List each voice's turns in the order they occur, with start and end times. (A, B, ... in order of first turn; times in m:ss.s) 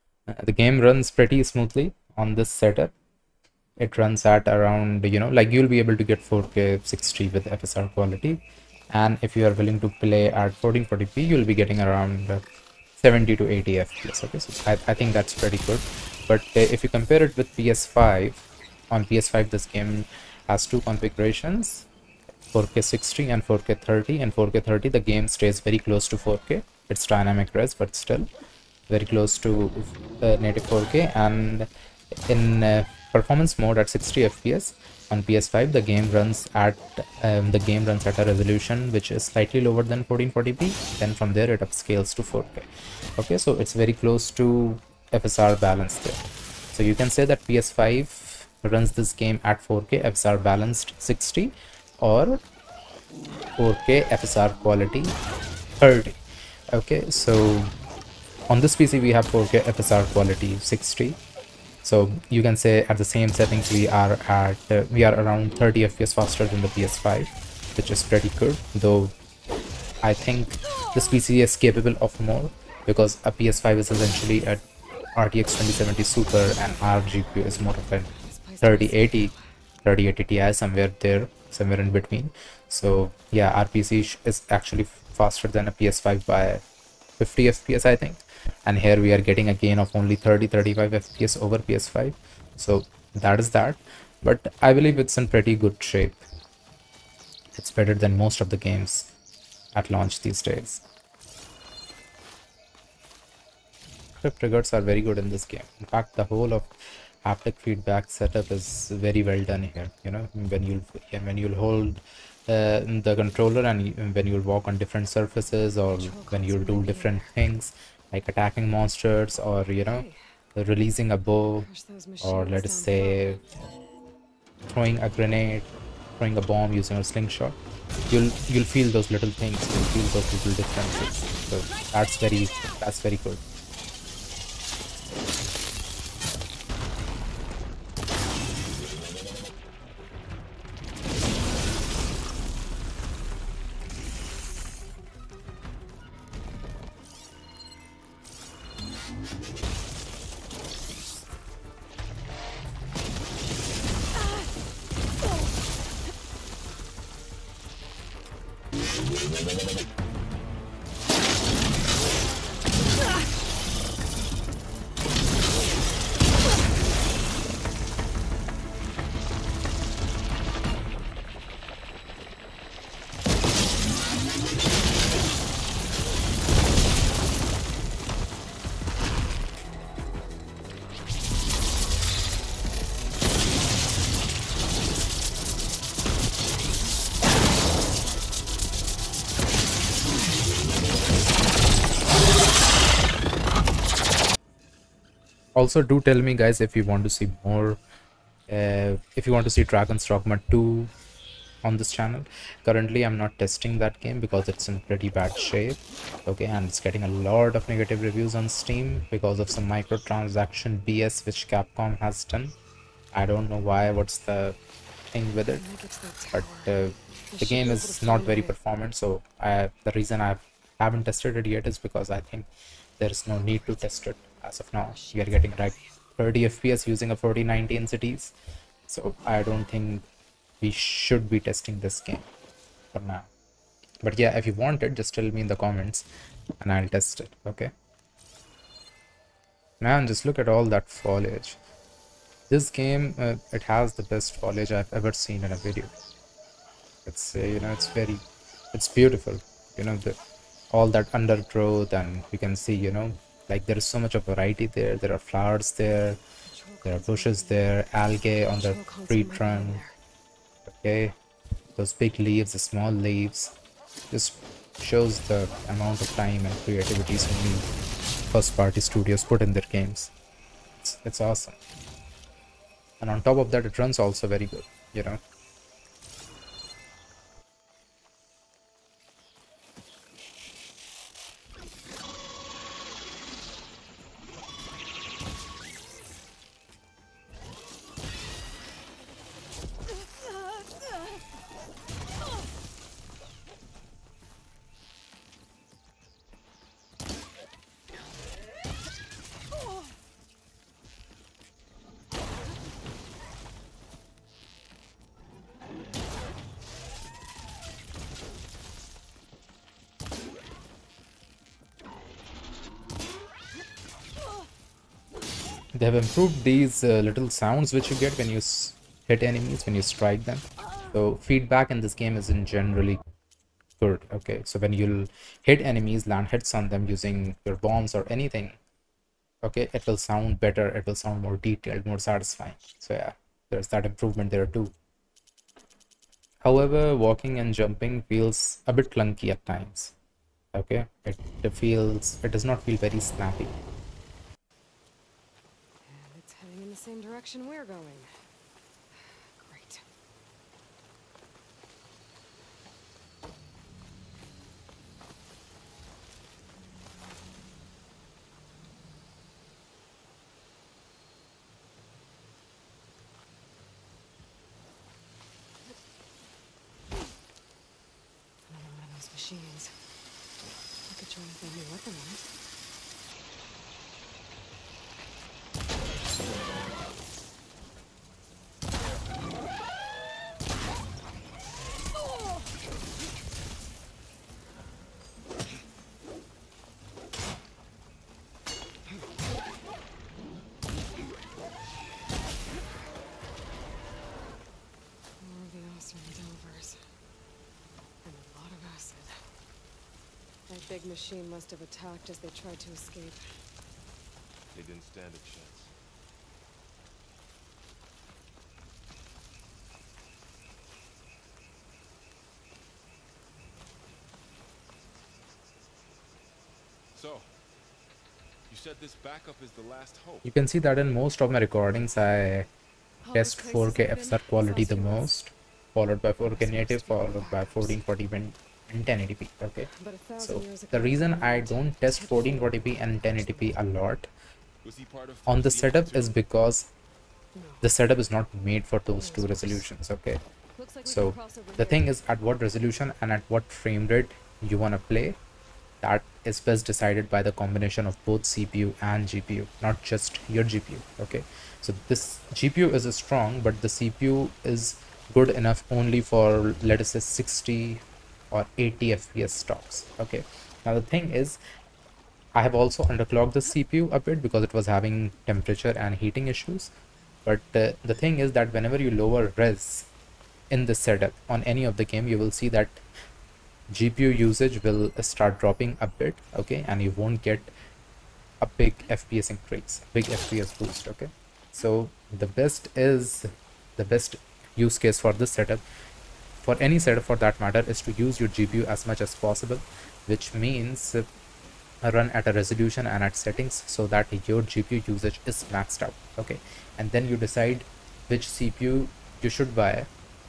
0:00.3-0:02.9 A
0:03.8-0:08.4 A
0:08.9-0:12.4 A
0:13.0-0:21.9 A
0:22.5-0:28.3 A
0:28.9-0:31.7 A
0:32.3-0:46.2 A
0:46.7-0:52.4 A
0:53.6-0:55.2 A
0:55.8-0:56.2 A
0:56.7-0:57.7 A
0:58.5-1:01.2 A
1:01.8-1:09.1 A
1:10.0-1:14.6 A
1:15.2-1:18.1 A
1:18.0-1:19.4 B
1:18.6-1:19.3 A
1:19.8-1:26.6 A
1:27.2-1:36.2 A
1:37.6-1:39.1 A
1:39.7-1:40.8 A
1:44.2-1:46.7 A
1:47.2-2:01.7 A
1:55.9-1:57.4 B
1:59.8-2:00.2 B
2:01.6-2:03.3 B
2:02.2-2:03.4 A
2:04.7-2:07.6 A
2:08.1-2:13.4 A
3:15.6-3:17.8 A
3:18.5-3:20.9 A
3:21.6-3:32.6 A
3:33.1-3:34.6 A
3:35.1-3:35.6 A
3:35.5-3:36.8 B
3:36.3-3:42.5 A
3:37.3-3:38.6 B
3:43.0-3:48.3 A
3:44.8-3:45.9 B
3:48.9-3:50.1 A
3:50.6-3:52.3 A
3:52.9-3:53.3 A
3:54.0-3:56.1 A
3:56.6-3:57.7 A
3:59.8-4:01.6 A
4:02.5-4:05.9 A
4:07.1-4:10.2 A
4:10.7-4:16.2 A
4:16.5-4:17.8 B
4:16.8-4:19.8 A
4:18.4-4:19.9 B
4:20.7-4:21.2 A
4:21.8-4:23.6 A
4:24.1-4:27.7 A
4:28.3-4:30.1 A
4:30.8-4:31.6 A
4:33.0-4:35.2 A
5:15.7-5:23.0 A
5:23.8-5:28.6 A
5:29.4-5:34.7 A
5:36.4-5:39.9 A
5:40.5-5:43.5 A
5:45.8-5:48.1 B
5:49.0-5:49.8 B
6:08.5-6:09.7 B
6:10.9-6:12.3 B
6:35.2-6:36.8 B
6:38.0-6:39.2 B
6:40.5-6:43.3 B
6:44.5-6:45.7 C
6:56.9-6:57.3 C
6:58.5-7:00.3 C
7:00.2-7:02.5 A
7:03.0-7:05.2 B
7:03.1-7:14.1 A
7:06.2-7:07.8 B
7:09.7-7:13.6 B
7:14.6-7:16.2 C
7:15.3-7:16.7 A
7:17.3-7:17.7 B
7:17.6-7:20.2 A
7:19.0-7:19.7 B
7:20.6-7:21.9 B
7:20.8-7:25.2 A
7:25.8-7:41.4 A
7:42.4-7:46.7 A
7:47.2-7:49.9 A
7:50.5-7:52.8 A
7:53.7-7:57.5 A
7:58.4-8:05.6 A
8:06.4-8:11.1 A
8:11.8-8:19.9 A